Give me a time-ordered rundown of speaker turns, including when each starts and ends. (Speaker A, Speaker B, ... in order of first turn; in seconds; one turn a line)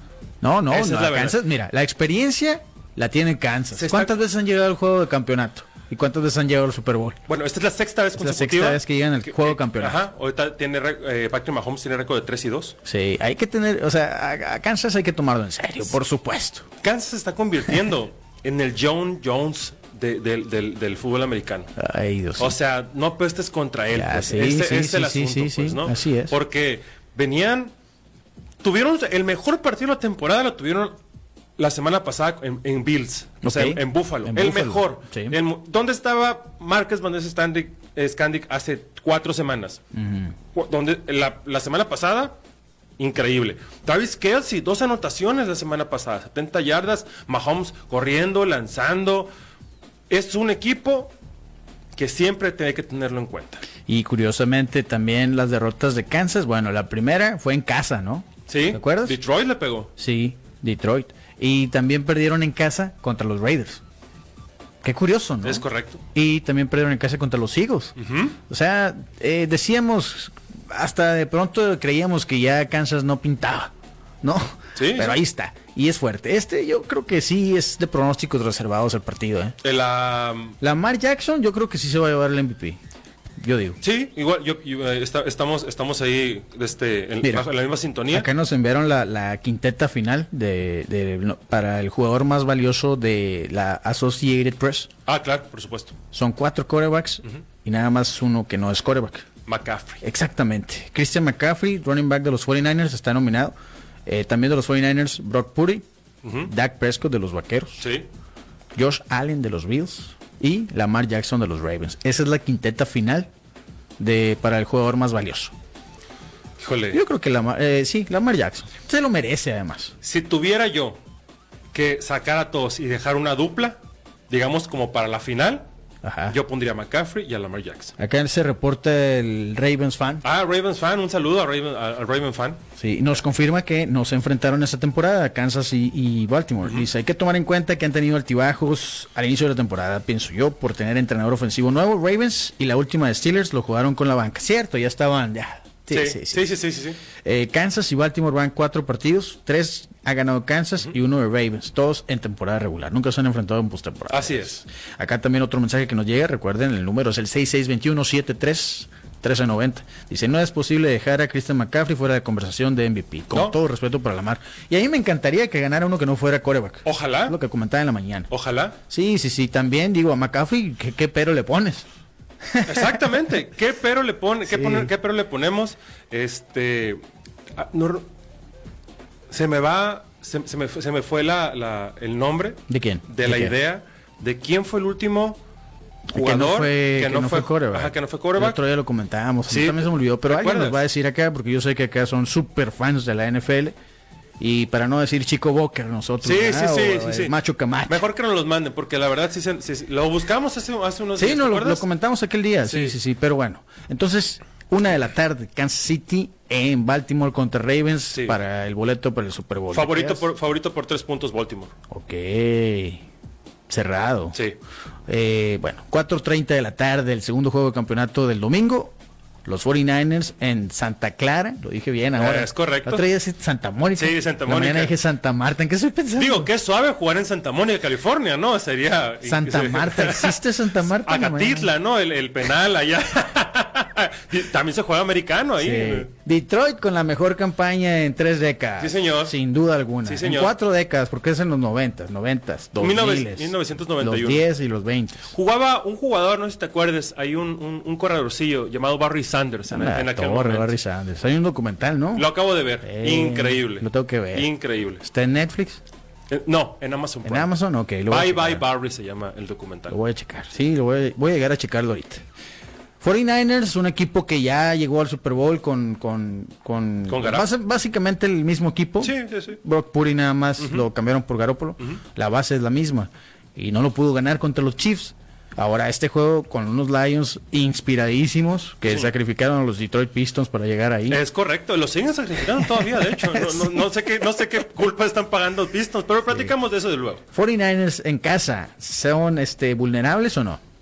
Speaker A: 0.4-7.2
Speaker B: 0.7-1.4
Speaker B: 3.8-4.1
Speaker B: 7.3-12.8
Speaker A: 8.2-10.0
Speaker A: 12.8-16.7
Speaker B: 16.8-21.7
Speaker A: 21.8-22.5
Speaker B: 22.4-27.7
Speaker A: 23.9-26.4
Speaker B: 28.6-31.0
Speaker B: 31.6-39.8
Speaker A: 33.4-35.4
Speaker A: 39.9-40.3
Speaker B: 40.5-42.3
Speaker B: 43.0-49.3
Speaker B: 50.1-51.1
Speaker B: 52.0-53.6
Speaker A: 53.9-59.2
Speaker B: 58.5-59.9
Speaker A: 60.0-63.8
Speaker A: 64.8-68.0
Speaker B: 65.4-66.0
Speaker B: 68.0-68.4
Speaker A: 68.5-79.6
Speaker B: 74.8-75.2
Speaker B: 79.6-80.5
Speaker A: 80.6-82.8
Speaker A: 83.4-83.8
Speaker B: 83.8-88.3
Speaker A: 88.1-94.9
Speaker B: 95.0-95.9
Speaker A: 96.1-99.3
Speaker B: 99.5-100.0
Speaker A: 100.0-103.5
Speaker A: 104.0-105.8
Speaker B: 106.2-106.5
Speaker A: 106.4-107.8
Speaker B: 107.8-108.1
Speaker A: 108.7-113.3
Speaker A: 114.0-115.5
Speaker B: 116.6-117.0
Speaker A: 116.9-119.9
Speaker B: 120.0-121.0
Speaker B: 121.7-123.8
Speaker B: 124.3-125.6
Speaker A: 126.0-126.4
Speaker B: 126.3-127.9
Speaker A: 128.0-130.2
Speaker B: 130.2-132.6
Speaker A: 132.8-146.5
Speaker B: 145.9-147.0
Speaker A: 147.2-168.3
Speaker B: 154.1-154.6
Speaker B: 163.3-163.6
Speaker B: 166.8-167.4
Speaker B: 168.3-168.8
Speaker A: 168.9-171.8
Speaker A: 172.5-173.0
Speaker B: 172.6-177.0
Speaker A: 174.5-174.9
Speaker B: 177.6-178.1
Speaker B: 179.3-185.4
Speaker A: 182.7-183.5
Speaker B: 186.1-188.6
Speaker A: 186.1-193.7
Speaker B: 189.5-190.8
Speaker A: 194.4-198.1
Speaker B: 196.2-197.3
Speaker B: 197.9-201.8
Speaker A: 201.2-210.2
Speaker B: 202.6-202.9
Speaker B: 209.7-211.7
Speaker A: 211.9-213.0
Speaker A: 213.7-214.3
Speaker A: 215.1-226.5
Speaker B: 222.1-223.1
Speaker B: 223.9-224.9
Speaker B: 226.2-236.1
Speaker A: 229.2-231.7
Speaker A: 235.6-245.3
Speaker B: 238.8-239.3
Speaker B: 240.0-240.5
Speaker B: 242.8-244.4
Speaker B: 245.3-250.8
Speaker A: 249.7-252.3
Speaker B: 252.2-255.1
Speaker A: 252.8-254.5
Speaker A: 255.0-255.8
Speaker B: 256.3-257.5
Speaker A: 257.2-258.6
Speaker B: 258.1-260.0
Speaker A: 259.9-262.2
Speaker A: 263.0-281.2
Speaker B: 267.1-267.5
Speaker B: 269.0-269.6
Speaker B: 270.6-270.9
Speaker B: 281.1-287.2
Speaker A: 282.8-283.8
Speaker A: 287.3-290.6